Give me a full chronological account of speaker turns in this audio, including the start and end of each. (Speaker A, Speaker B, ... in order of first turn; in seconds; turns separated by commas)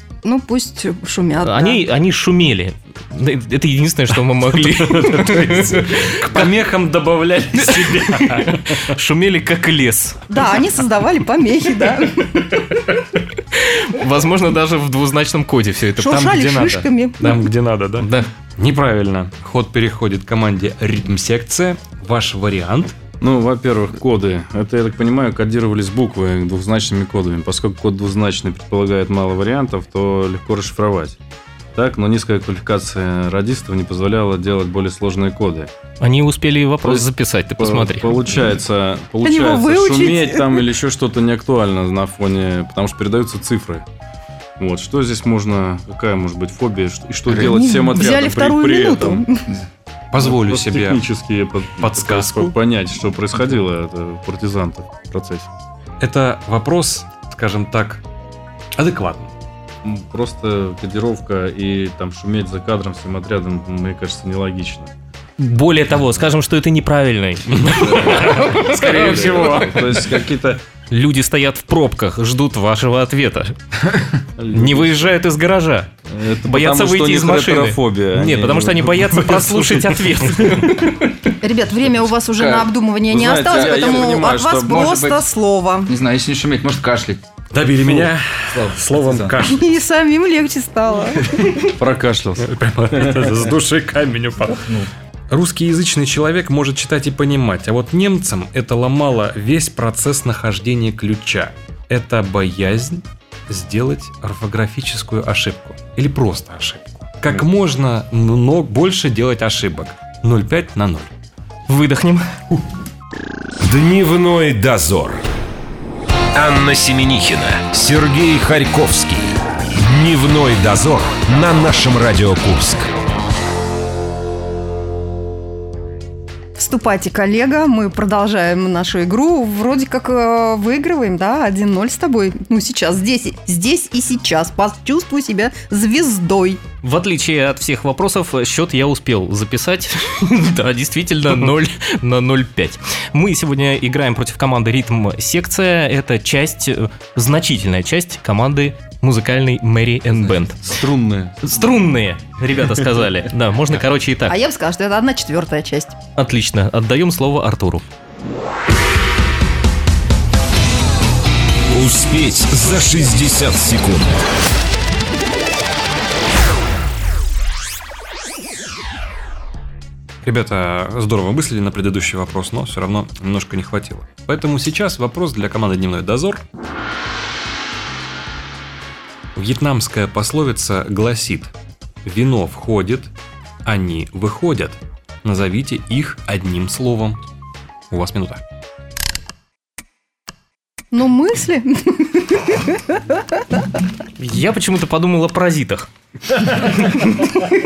Speaker A: 0.2-1.8, Speaker B: 1.4-6.5, Speaker C: 4.6-8.9, Speaker B: 7.5-10.3, Speaker A: 10.3-12.7, Speaker B: 13.5-16.3, Speaker A: 16.0-17.3, Speaker C: 16.1-22.9, Speaker B: 18.0-18.3, Speaker D: 23.2-31.2, Speaker D: 31.7-35.7, Speaker B: 36.0-38.2, Speaker D: 36.8-43.8, Speaker A: 39.2-40.7, Speaker D: 44.6-49.2, Speaker E: 47.3-47.5, Speaker A: 47.4-49.5, Speaker C: 50.1-51.0, Speaker D: 50.2-55.5, Speaker C: 51.8-52.5, Speaker C: 56.0-58.0, Speaker C: 58.8-59.3, Speaker D: 59.8-64.9, Speaker B: 65.4-69.6, Speaker C: 67.5-70.2, Speaker D: 67.6-70.6, Speaker B: 70.9-73.5, Speaker D: 74.4-75.1, Speaker B: 74.5-75.9, Speaker D: 76.1-79.6, Speaker B: 76.4-81.3, Speaker A: 81.4-85.9, Speaker E: 82.3-82.7, Speaker D: 83.1-84.9, Speaker E: 83.4-85.3, Speaker E: 85.8-87.2, Speaker C: 87.5-89.7, Speaker E: 88.5-89.3, Speaker A: 89.4-91.6, Speaker D: 91.7-93.3, Speaker C: 92.4-94.7, Speaker E: 94.4-94.9, Speaker C: 95.3-111.1, Speaker B: 111.7-112.6, Speaker F: 113.6-115.2, Speaker F: 116.3-122.9, Speaker A: 126.5-136.6, Speaker B: 136.8-150.8, Speaker D: 150.6-151.7, Speaker B: 151.4-154.4, Speaker A: 154.3-155.9, Speaker B: 156.2-157.8, Speaker F: 161.7-164.1, Speaker C: 170.2-176.4, Speaker C: 179.3-181.5, Speaker C: 182.0-183.1, Speaker C: 183.6-187.2, Speaker C: 187.9-188.4, Speaker A: 190.9-193.6, Speaker B: 194.2-195.9